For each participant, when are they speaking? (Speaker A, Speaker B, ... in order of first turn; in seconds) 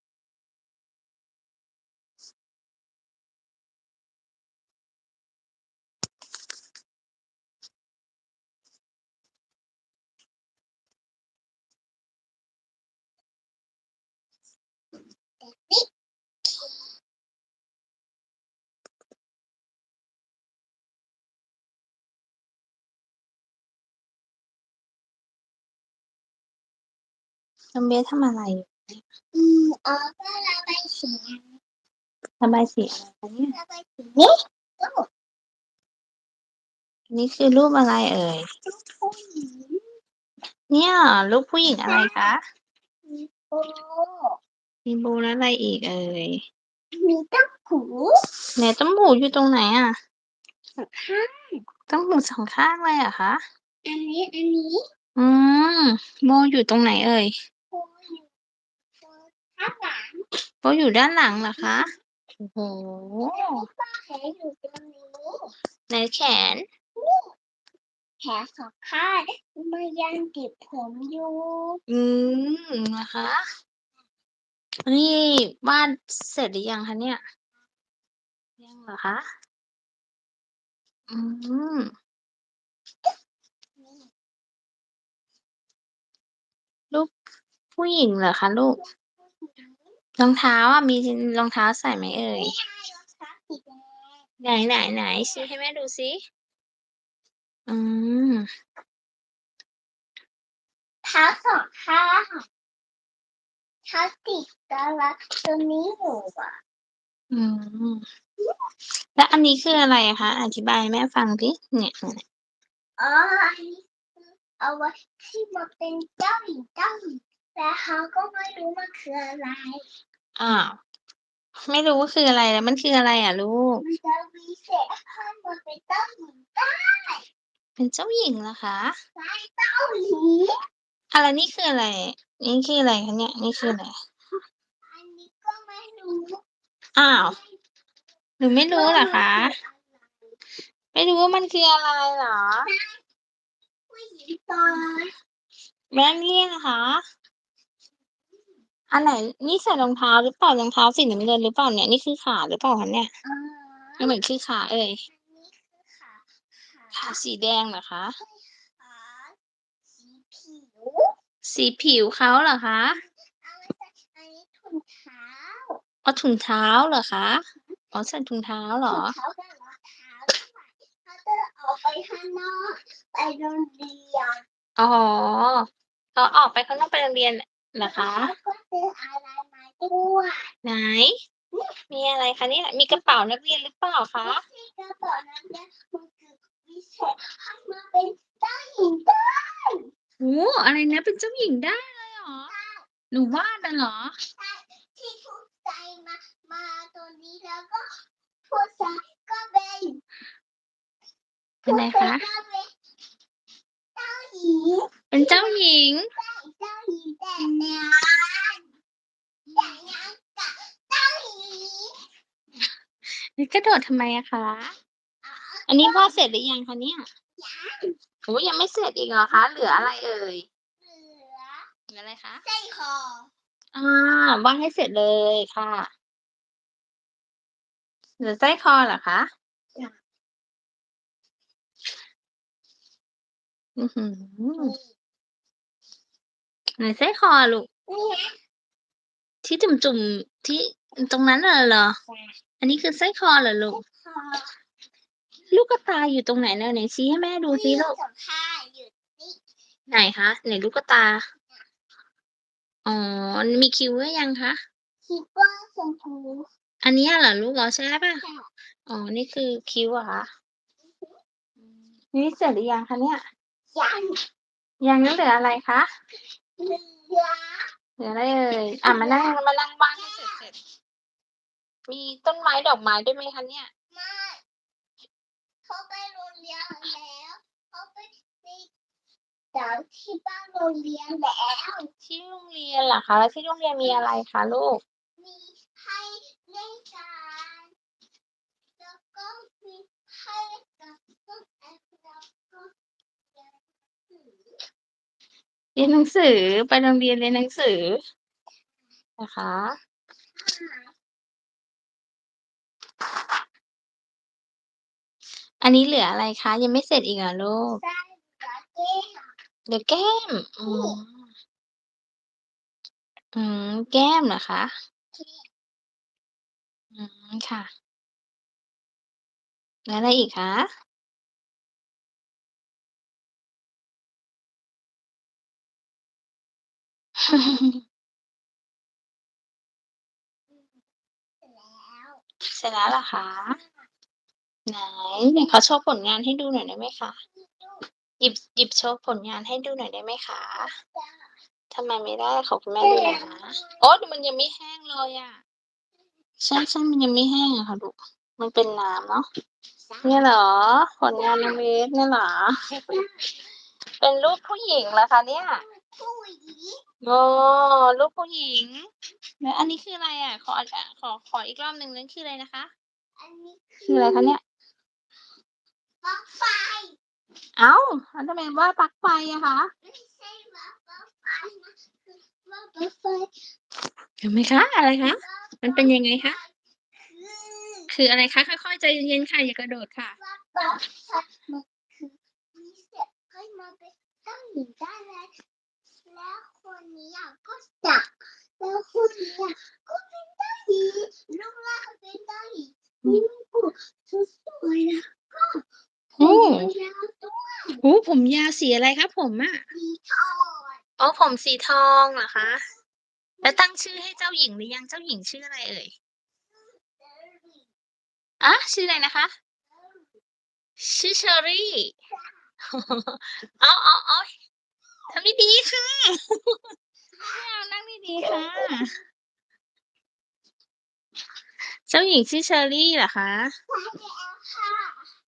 Speaker A: 15.4-15.9, 16.4-16.8, 29.3-31.5, 33.5-35.0, 38.6-39.9, 41.8-42.3, 43.0-44.4, 47.0-48.1, 50.8-51.6, 53.8-54.8, 57.7-58.3, 59.0-60.2, 61.4-61.8, 63.3-65.5, 67.0-67.3, 68.2-71.8, 83.8-84.1, 89.0-89.9, 92.4-94.1, 95.1-95.5, 101.0-102.5, 103.9-106.6, 113.0-119.8, 123.8-127.2, 129.2-130.5, 134.9-136.4, 137.1-137.6, 138.7-139.9, 142.6-143.0, 143.9-145.1, 153.2-154.1, 155.1-157.2, 158.2-159.3, 159.9-161.1, 163.4-165.8, 168.9-174.4, 177.8-180.5, 184.2-189.9, 192.5-192.8, 194.3-197.9, 198.5-200.0, 201.7-202.7, 203.9-205.6, 206.2-208.6, 209.5-211.9, 215.2-216.2, 217.4-217.9, 219.3-219.9, 220.8-221.7, 222.4-223.3, 234.6-234.9, 237.9-238.3, 243.7-244.5, 247.5-249.4, 255.0-256.4, 258.2-258.5, 260.9-261.1, 263.7-264.2, 266.6-267.7, 268.8-269.3, 269.9-270.5, 273.9-274.4, 275.7-278.7, 279.5-281.9, 285.2-287.7, 288.8-292.7, 293.3-294.5, 300.4-300.9, 307.8-309.3, 310.6-311.0, 315.1-315.4, 330.5-330.8, 331.4-332.2, 337.3-337.9, 340.6-341.3, 342.8-343.8, 349.9-350.3, 351.1-351.6, 352.9-353.3, 355.5-356.8, 363.2-364.4, 366.0-366.9, 369.8-373.4, 375.0-377.9, 380.2-385.3, 386.1-395.6, 396.2-397.8, 399.7-400.8, 406.5-407.7, 418.2-419.0, 423.7-425.1
Speaker B: 27.7-29.0, 32.4-33.5, 37.1-38.5, 40.7-42.4, 44.9-46.4, 48.5-49.9, 51.9-53.4, 55.1-57.3, 60.6-61.9, 62.4-63.5, 65.9-66.6, 71.9-73.4, 74.8-77.2, 78.6-79.2, 81.1-81.9, 87.8-88.8, 90.2-92.5, 94.4-96.2, 97.7-98.5, 107.3-108.0, 109.2-112.2, 120.4-120.8, 121.7-123.7, 127.8-128.9, 131.1-133.9, 136.9-137.4, 138.4-139.5, 140.9-142.7, 145.9-147.0, 148.9-153.1, 154.0-155.0, 156.9-158.1, 161.4-162.9, 166.0-167.4, 167.9-169.1, 174.8-175.6, 176.2-178.3, 180.6-181.1, 181.9-184.4, 190.2-192.5, 193.1-194.1, 201.7-202.2, 205.1-206.0, 213.1-214.7, 215.7-217.0, 218.2-220.4, 221.9-222.4, 223.7-225.9, 228.2-229.3, 233.8-234.7, 236.8-237.7, 239.4-241.9, 242.6-243.8, 245.5-247.9, 249.9-251.2, 252.8-254.6, 256.8-258.2, 258.9-260.3, 262.1-263.2, 264.8-265.9, 268.0-270.6, 271.9-273.7, 282.0-284.8, 295.8-298.0, 299.2-299.7, 305.6-307.8, 309.7-311.2, 313.3-314.7, 316.9-317.7, 319.9-320.6, 327.3-327.8, 332.5-333.6, 334.7-337.2, 338.2-340.7, 341.7-345.4, 346.4-349.2, 350.0-352.8, 354.0-355.6, 357.0-358.8, 359.4-362.7, 363.9-364.4, 367.6-369.7, 374.2-376.4, 377.9-380.1, 396.2-396.7, 397.8-399.6, 401.0-402.6, 403.4-405.9, 408.4-409.3, 410.8-411.9, 412.7-414.3, 415.1-416.6, 417.2-418.9, 421.9-423.5